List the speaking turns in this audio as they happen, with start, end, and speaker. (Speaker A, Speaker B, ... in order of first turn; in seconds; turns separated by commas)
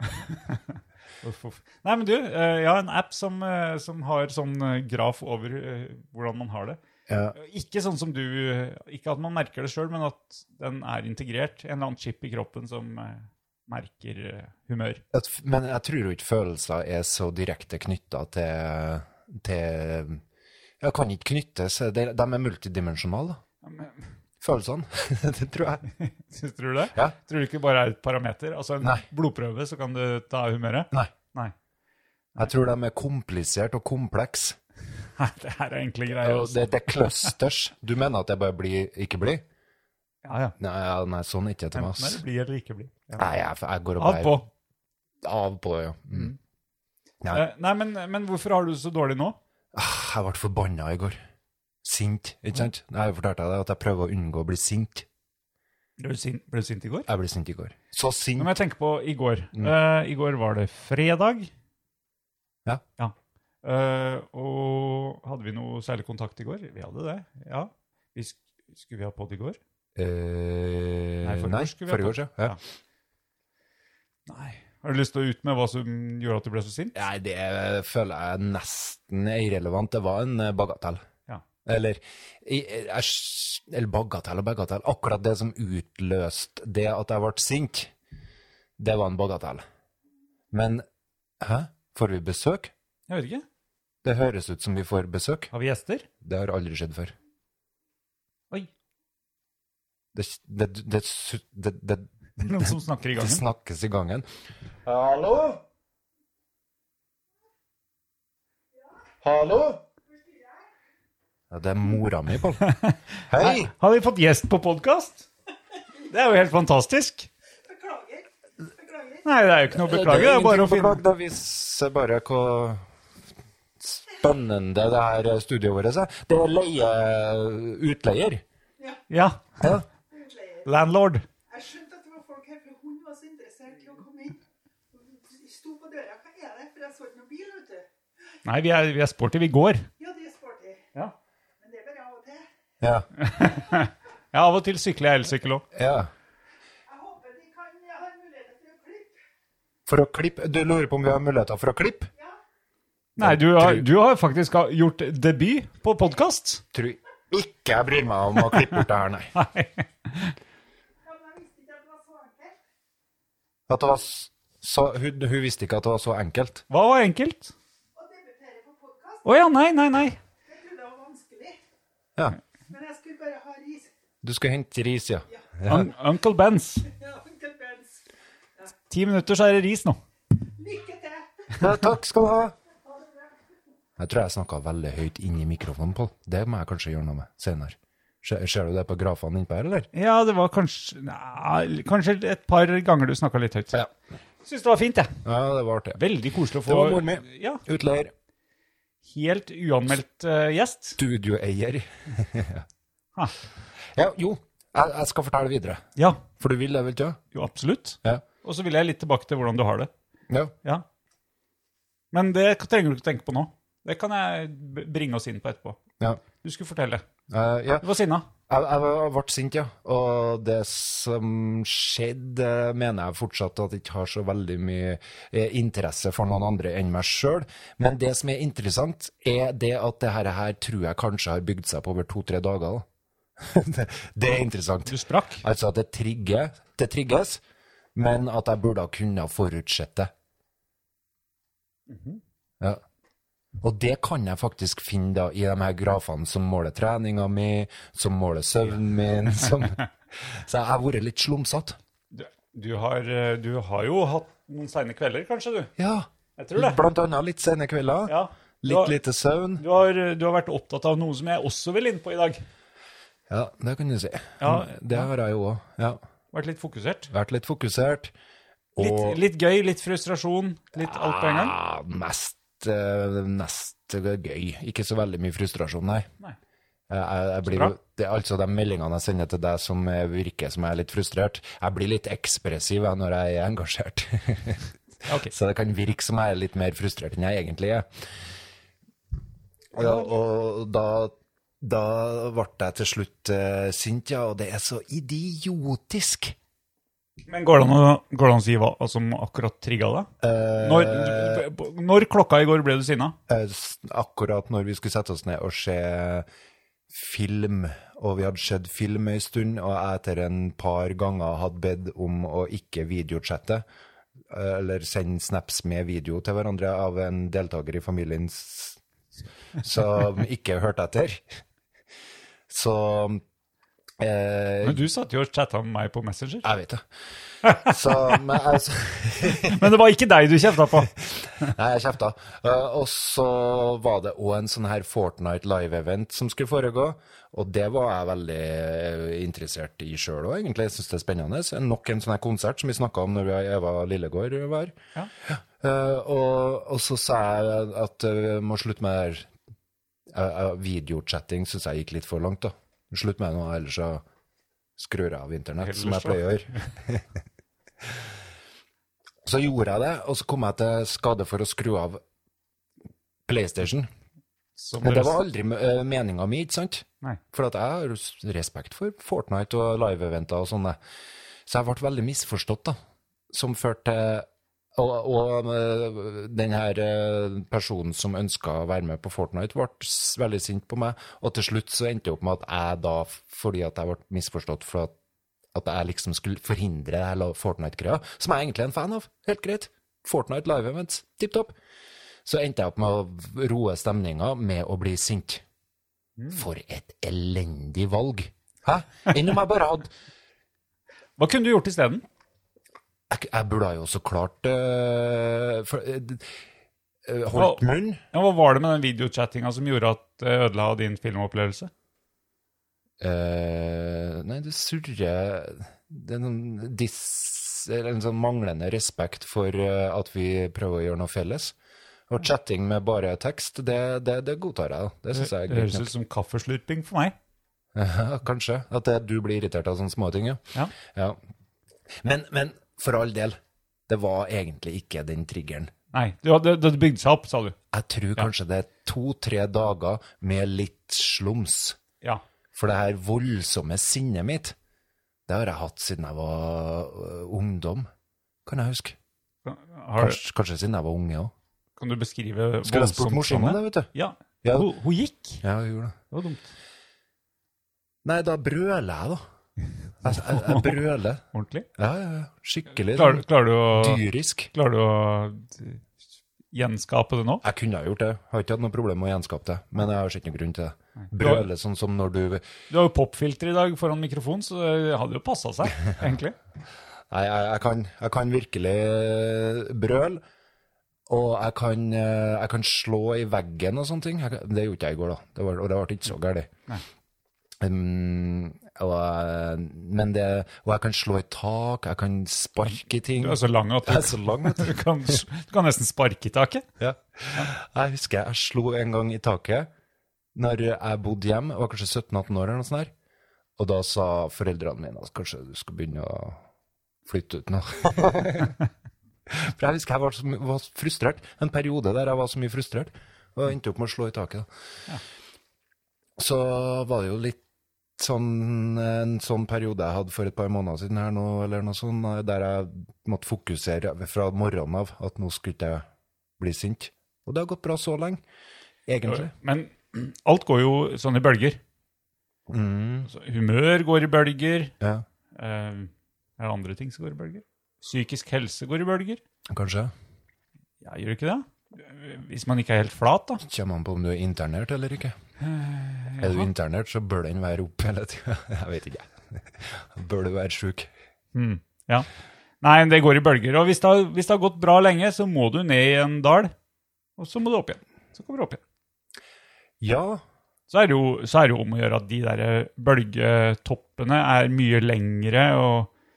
Speaker A: 0.5-6.8, Speaker B: 7.1-7.3, Speaker A: 7.3-15.0, Speaker B: 15.1-20.2, Speaker B: 20.8-23.4, Speaker A: 23.6-24.0, Speaker B: 24.4-25.9, Speaker A: 26.0-31.5, Speaker B: 32.4-34.6, Speaker A: 35.2-36.9, Speaker B: 36.2-39.4, Speaker A: 40.2-40.5, Speaker B: 40.6-42.2, Speaker A: 41.7-43.3, Speaker B: 43.2-44.4, Speaker A: 44.0-44.5, Speaker B: 45.2-46.3, Speaker A: 47.3-49.4, Speaker B: 49.7-51.2, Speaker B: 51.8-55.1, Speaker A: 56.0-57.1, Speaker B: 57.1-58.6, Speaker A: 58.4-61.5, Speaker A: 63.0-69.6, Speaker B: 70.0-72.6, Speaker A: 71.2-72.6, Speaker A: 74.3-77.0, Speaker B: 77.0-81.0, Speaker B: 81.7-87.9, Speaker B: 88.8-89.6, Speaker B: 90.5-90.8, Speaker B: 91.4-92.7, Speaker A: 93.1-93.5, Speaker B: 94.0-95.5, Speaker A: 95.5-96.1, Speaker B: 96.2-97.1, Speaker B: 100.1-104.3, Speaker A: 102.4-103.4, Speaker B: 104.8-105.6, Speaker B: 109.2-109.8, Speaker C: 110.1-110.6, Speaker B: 111.5-112.6, Speaker A: 112.6-115.3, Speaker B: 113.3-113.7, Speaker A: 116.0-117.3, Speaker C: 117.6-119.3, Speaker A: 119.2-121.0, Speaker B: 119.7-122.8, Speaker B: 123.8-128.4, Speaker A: 129.1-129.8, Speaker C: 130.1-130.7, Speaker A: 130.7-131.2, Speaker C: 131.5-134.4, Speaker C: 135.0-137.9, Speaker A: 138.4-139.9, Speaker C: 140.0-140.8, Speaker C: 141.6-142.4, Speaker B: 142.8-143.1, Speaker A: 143.2-145.7, Speaker B: 145.7-146.1, Speaker C: 146.9-149.2, Speaker B: 149.9-152.1, Speaker A: 153.2-156.6, Speaker B: 153.2-153.9, Speaker B: 156.7-159.3, Speaker A: 158.4-160.3, Speaker C: 161.1-162.6, Speaker B: 163.7-166.7, Speaker A: 166.7-167.5, Speaker C: 168.0-169.3, Speaker A: 169.2-170.2, Speaker C: 170.4-171.6, Speaker C: 172.7-173.9, Speaker B: 174.2-175.9, Speaker A: 175.7-176.9, Speaker C: 176.9-178.0, Speaker A: 178.9-180.0, Speaker C: 180.6-181.7, Speaker B: 181.6-182.6, Speaker C: 182.9-183.3, Speaker B: 184.0-189.9, Speaker A: 189.9-193.8, Speaker A: 194.4-195.1, Speaker B: 195.2-196.0, Speaker A: 196.0-197.6, Speaker B: 196.7-198.1, Speaker A: 199.0-201.0, Speaker B: 201.0-202.7, Speaker B: 203.9-207.2, Speaker A: 206.0-206.2, Speaker A: 207.3-209.9, Speaker B: 210.3-210.5, Speaker A: 212.1-215.8, Speaker A: 216.4-217.1, Speaker B: 217.3-217.9, Speaker A: 217.8-218.3, Speaker B: 218.5-232.8, Speaker B: 233.4-237.4, Speaker A: 234.9-235.4, Speaker B: 237.9-240.1, Speaker A: 241.9-242.2, Speaker B: 243.6-251.8, Speaker A: 252.1-255.7, Speaker B: 255.8-259.6, Speaker A: 256.4-256.8, Speaker A: 258.1-258.9, Speaker A: 259.6-262.4, Speaker B: 263.3-266.0, Speaker A: 264.4-265.1, Speaker A: 266.3-267.1, Speaker B: 267.1-268.1, Speaker B: 268.8-269.2, Speaker A: 268.8-271.6, Speaker B: 270.8-276.1, Speaker B: 276.9-284.7, Speaker A: 277.5-277.7, Speaker A: 285.1-285.3, Speaker B: 285.3-287.9, Speaker B: 289.7-296.4, Speaker A: 297.3-303.2, Speaker B: 300.2-301.5, Speaker B: 303.3-306.3, Speaker B: 306.9-313.6, Speaker B: 314.3-318.8, Speaker B: 319.6-321.2, Speaker B: 322.5-323.2, Speaker B: 324.0-324.9, Speaker A: 324.6-326.5, Speaker B: 326.4-326.9, Speaker A: 327.4-327.7, Speaker B: 327.5-329.7, Speaker A: 329.4-330.9, Speaker B: 331.0-349.3, Speaker B: 350.1-354.0, Speaker B: 354.8-357.2, Speaker A: 355.6-356.7, Speaker B: 359.2-362.0, Speaker B: 363.3-363.9, Speaker A: 364.6-365.2, Speaker B: 364.8-370.8, Speaker B: 371.5-372.8, Speaker B: 373.3-384.9, Speaker B: 385.5-391.5, Speaker B: 392.2-395.4, Speaker A: 396.2-396.4, Speaker B: 396.3-399.9, Speaker A: 401.2-402.0, Speaker B: 403.1-406.3, Speaker B: 407.1-408.0, Speaker A: 407.3-411.7, Speaker B: 413.0-421.6, Speaker B: 422.1-425.9, Speaker A: 425.1-427.1, Speaker B: 427.7-431.2, Speaker B: 432.0-435.7, Speaker A: 435.9-437.6, Speaker B: 437.7-441.8, Speaker B: 442.5-444.6, Speaker B: 445.3-447.9, Speaker B: 448.4-449.0, Speaker A: 449.4-450.2, Speaker B: 450.0-451.3, Speaker A: 451.8-455.4, Speaker B: 452.6-453.9, Speaker B: 454.4-454.7, Speaker B: 455.4-456.0, Speaker A: 456.1-456.5, Speaker B: 458.0-459.2, Speaker B: 460.0-461.2, Speaker A: 460.1-460.8, Speaker A: 461.3-461.7, Speaker B: 461.8-464.5, Speaker A: 462.9-465.9, Speaker A: 466.5-467.4, Speaker B: 467.4-472.4, Speaker A: 471.0-471.5, Speaker A: 472.7-476.4, Speaker B: 477.1-480.2, Speaker B: 481.1-486.5, Speaker B: 487.6-494.8, Speaker A: 493.2-496.6, Speaker B: 496.8-499.7, Speaker B: 500.4-502.9, Speaker B: 503.6-506.4, Speaker B: 507.1-508.6, Speaker B: 509.3-514.5, Speaker B: 516.2-517.4, Speaker B: 518.0-525.9, Speaker B: 526.4-528.2, Speaker B: 528.9-529.3, Speaker A: 529.1-531.6, Speaker B: 532.5-533.1, Speaker A: 533.1-534.7, Speaker A: 535.4-539.2, Speaker B: 539.5-539.9, Speaker A: 540.8-543.4, Speaker B: 543.4-545.2, Speaker A: 545.4-546.5, Speaker B: 546.2-550.9, Speaker A: 551.3-552.1, Speaker A: 552.6-556.5, Speaker A: 557.2-558.6, Speaker B: 559.8-560.2, Speaker A: 560.7-565.9